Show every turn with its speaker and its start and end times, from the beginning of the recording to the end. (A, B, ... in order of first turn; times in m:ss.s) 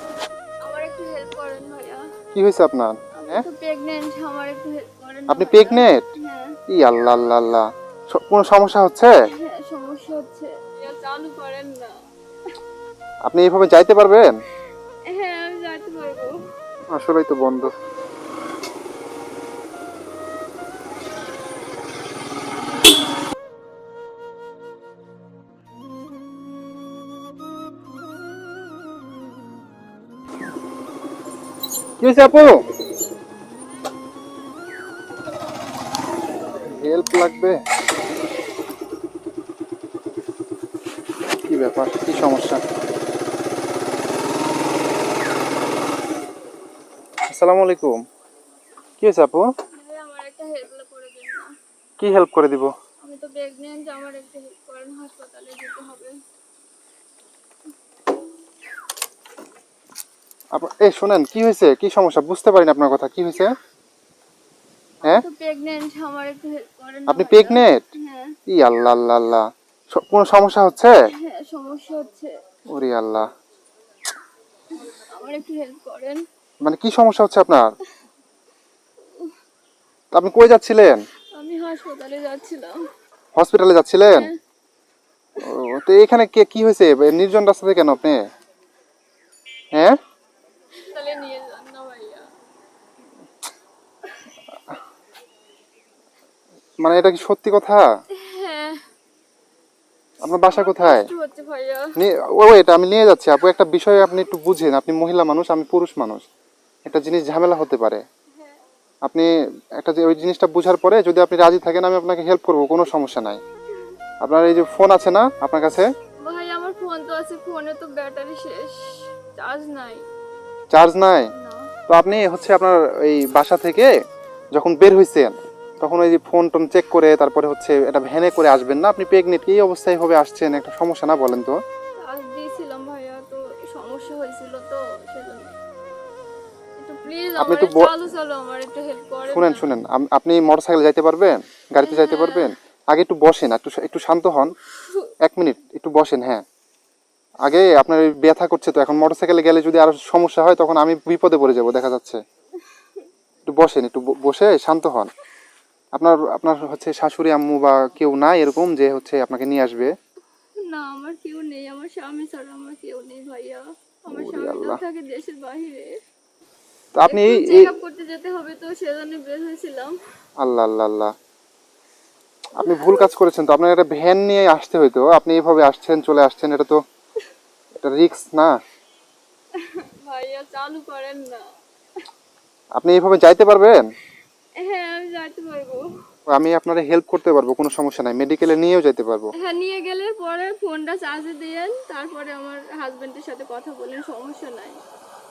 0:00.6-0:02.0 A
0:02.3-0:03.4 B
0:03.1-0:06.5 A
0:05.3-0:06.0 B
0:06.7-0:09.1 B
0:09.3-0:12.0 A
0:13.3-0:14.3 B
0:15.1-0:16.3 A
0:16.9-0:17.7 B
0:32.0-0:32.6 B
0:36.7-0:37.6 B
0:41.4-0:42.6 B
0:47.3-0:48.0 B
0:49.0-0:49.5 B
0:49.7-0:51.5 A
0:52.0-0:52.7 B
0:53.0-0:56.1 A
1:00.5-1:03.5 B
1:05.0-1:08.4 A
1:07.1-1:07.8 B
1:08.5-1:10.9 B
1:11.2-1:12.3 A
1:12.7-1:13.3 B
1:14.7-1:16.2 A
1:16.6-1:17.7 B
1:20.1-1:21.0 B
1:21.3-1:22.8 A
1:23.3-1:24.3 B
1:24.1-1:24.3 A
1:25.4-1:28.2 B
1:30.8-1:32.3 A
1:36.8-1:37.8 B
1:38.1-1:38.8 A
1:40.2-1:41.1 B
1:40.5-1:41.9 A
1:42.0-1:46.2 B
1:46.8-1:48.0 B
1:49.8-1:53.4 B
1:54.2-1:55.9 B
1:56.2-2:00.0 A
2:00.7-2:01.2 B
2:01.3-2:01.7 A
2:01.9-2:03.9 B
2:04.5-2:11.6 B
2:12.0-2:15.5 A
2:16.8-2:19.7 A
2:17.4-2:17.9 B
2:19.3-2:24.5 B
2:21.8-2:22.5 A
2:24.8-2:25.1 A
2:25.2-2:26.4 B
2:27.4-2:32.2 B
2:33.5-2:35.1 B
2:36.0-2:39.9 B
2:40.6-2:46.0 A
2:44.2-2:44.8 B
2:47.0-2:47.7 B
2:47.0-2:50.0 A
2:50.4-2:51.1 B
2:52.6-2:53.1 A
2:52.6-2:56.8 B
2:57.8-2:58.5 B
2:59.5-3:01.5 A
3:02.8-3:03.8 B
3:04.6-3:05.8 A
3:06.3-3:09.3 B
3:09.4-3:14.8 A